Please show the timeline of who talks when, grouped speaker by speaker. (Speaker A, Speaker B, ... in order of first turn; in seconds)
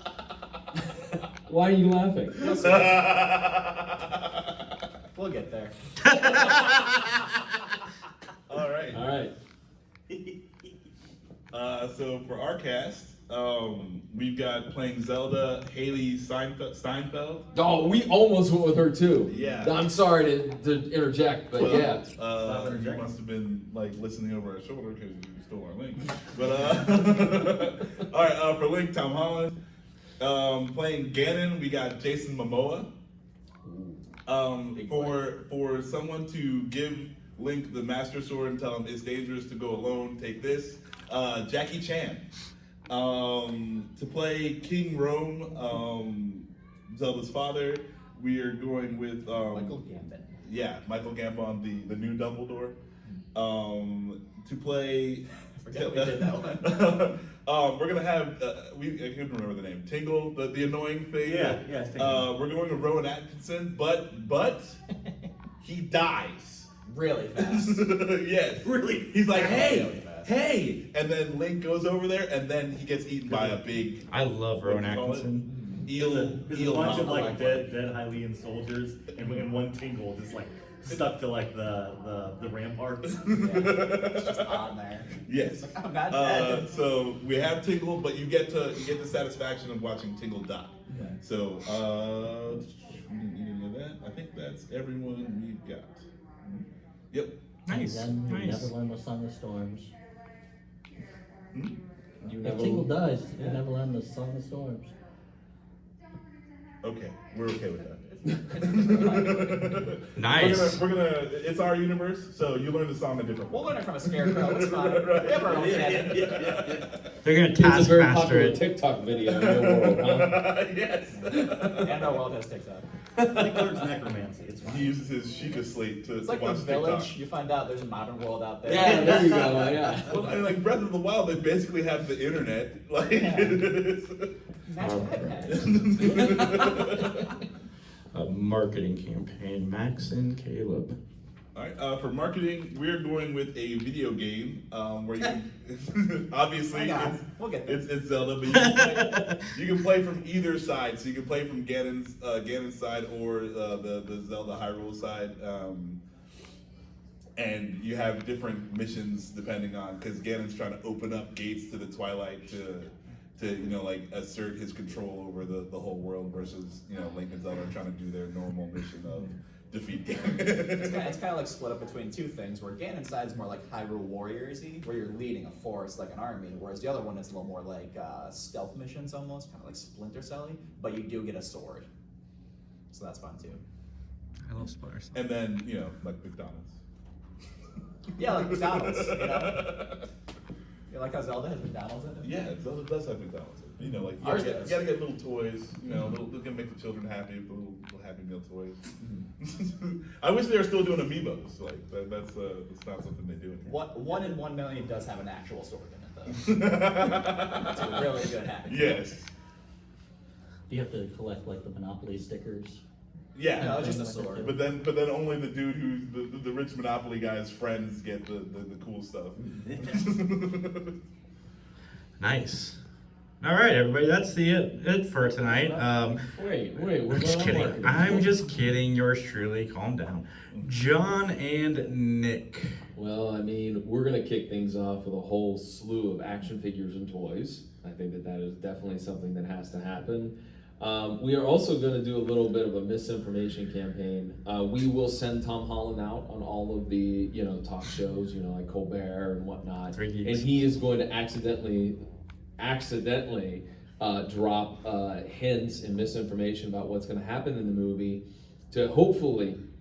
Speaker A: 1.5-2.5, 8.9-9.3, 17.5-22.1, 33.6-34.0, 102.4-102.9, 117.5-120.5, 123.2-123.6, 128.6-130.2, 225.4-228.3, 232.9-252.0, 252.6-259.6
Speaker B: 2.4-3.1, 5.1-6.9, 49.3-50.4, 55.6-56.8, 66.8-68.0, 69.3-70.3, 76.6-77.7, 83.3-86.7, 90.9-91.2, 108.1-109.8, 113.5-116.4, 121.2-122.8, 126.2-129.7, 133.2-133.6, 134.7-136.9, 146.7-147.9, 170.6-181.9, 182.9-183.6, 188.2-189.8, 190.9-192.5, 194.2-194.9, 203.6-206.9, 207.6-209.0, 213.5-214.5
Speaker C: 2.5-4.0, 8.5-9.0, 11.5-17.4, 19.3-19.9, 21.5-29.5, 30.2-32.9, 34.2-42.2, 42.9-49.8, 50.4-52.8, 53.3-64.8, 65.6-66.7, 67.3-74.0, 74.6-77.6, 83.1-84.6, 85.2-97.3, 101.5-102.3, 106.8-116.9, 119.2-121.9, 124.6-127.1, 130.0-134.3, 135.5-137.3, 141.5-156.0, 157.4-171.2, 185.1-186.8, 188.2-190.0, 192.2-198.8, 199.4-203.9, 206.3-208.0, 208.7-209.3, 213.3-220.9
Speaker D: 6.0-6.7, 74.1-75.5, 97.7-98.7, 110.2-110.8, 117.2-118.6, 134.8-135.6, 138.1-140.9, 148.5-149.4, 184.5-185.2, 222.2-222.8, 223.4-226.2, 227.1-232.8, 249.9-250.5
Speaker E: 22.3-23.1, 61.2-62.3, 68.6-69.5, 75.9-83.3, 115.5-116.8, 123.2-125.0, 219.6-219.9
Speaker F: 97.7-99.9, 102.3-104.9, 210.7-212.8, 213.6-214.6